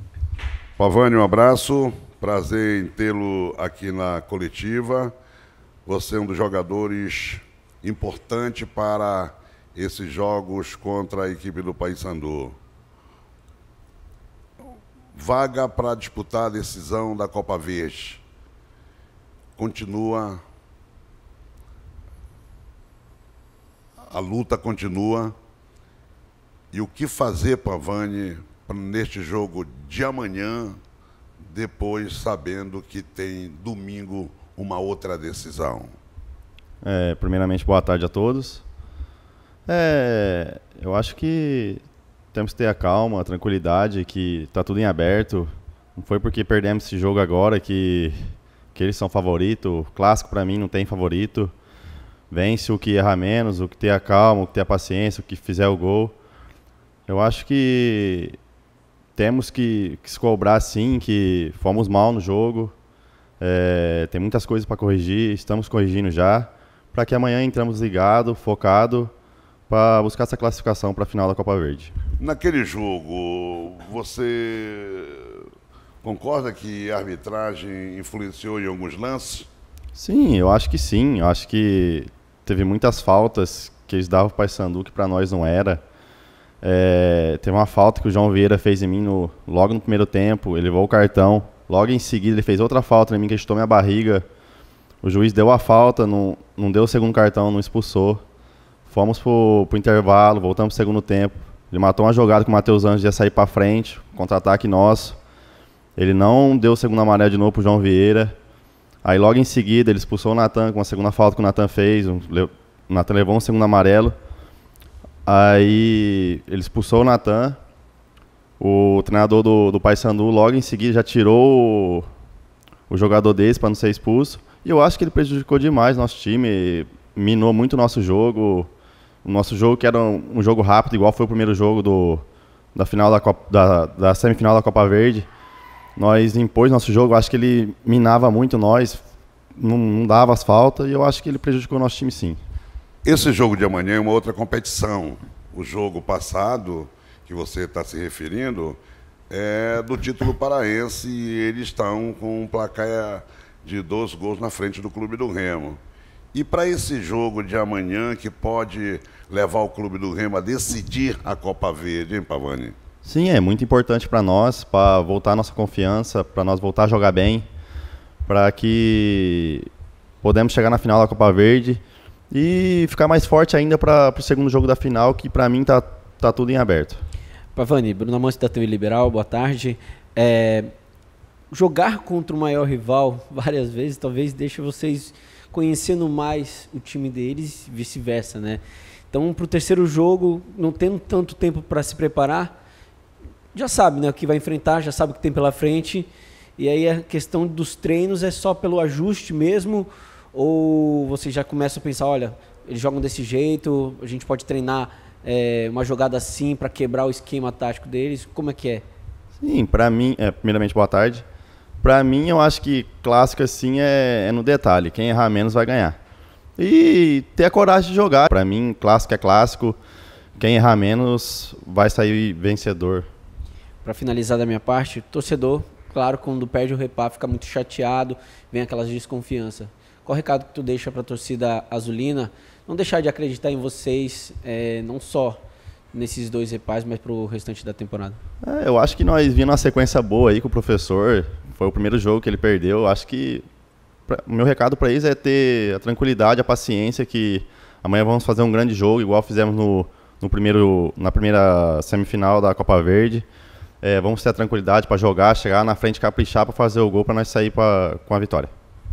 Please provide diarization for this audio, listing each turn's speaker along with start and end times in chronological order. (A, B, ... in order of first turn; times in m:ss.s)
0:00.8-0:05.1 A
0:05.9-0:12.6 A
0:15.1-0:18.2 A
0:19.6-0:20.4 A
0:24.1-0:25.4 A
0:26.7-0:30.8 A
0:31.4-0:35.9 A
0:36.8-0:38.6 B
0:39.7-0:41.8 B
0:42.3-0:51.5 B
0:52.3-0:56.2 B
0:57.1-0:58.4 B
0:59.2-1:02.7 B
1:03.4-1:09.1 B
1:09.7-1:11.9 B
1:12.2-1:15.5 A
1:16.0-1:19.5 A
1:20.0-1:25.8 B
1:26.6-1:34.3 B
1:35.0-1:38.2 B
1:38.9-1:45.2 B
1:46.0-1:48.4 B
1:49.0-1:54.2 B
1:55.3-1:57.6 B
1:58.6-2:02.1 B
2:02.9-2:08.7 B
2:09.2-2:12.2 B
2:12.8-2:15.3 B
2:16.0-2:19.0 B
2:19.6-2:22.4 B
2:23.0-2:28.8 A
2:29.3-2:35.8 A
2:36.3-2:42.8 A
2:43.0-2:47.5 B
2:48.3-2:49.7 B
2:50.2-2:57.0 B
2:57.6-3:00.7 C
3:01.5-3:12.5 C
3:13.5-3:28.8 C
3:29.4-3:31.2 B
3:31.8-3:36.0 B
3:36.6-3:39.8 B
3:40.4-3:43.1 B
3:43.8-3:55.4 C
3:55.9-3:58.2 C
3:58.4-4:03.4 B
4:04.1-4:13.3 B
4:13.8-4:18.5 B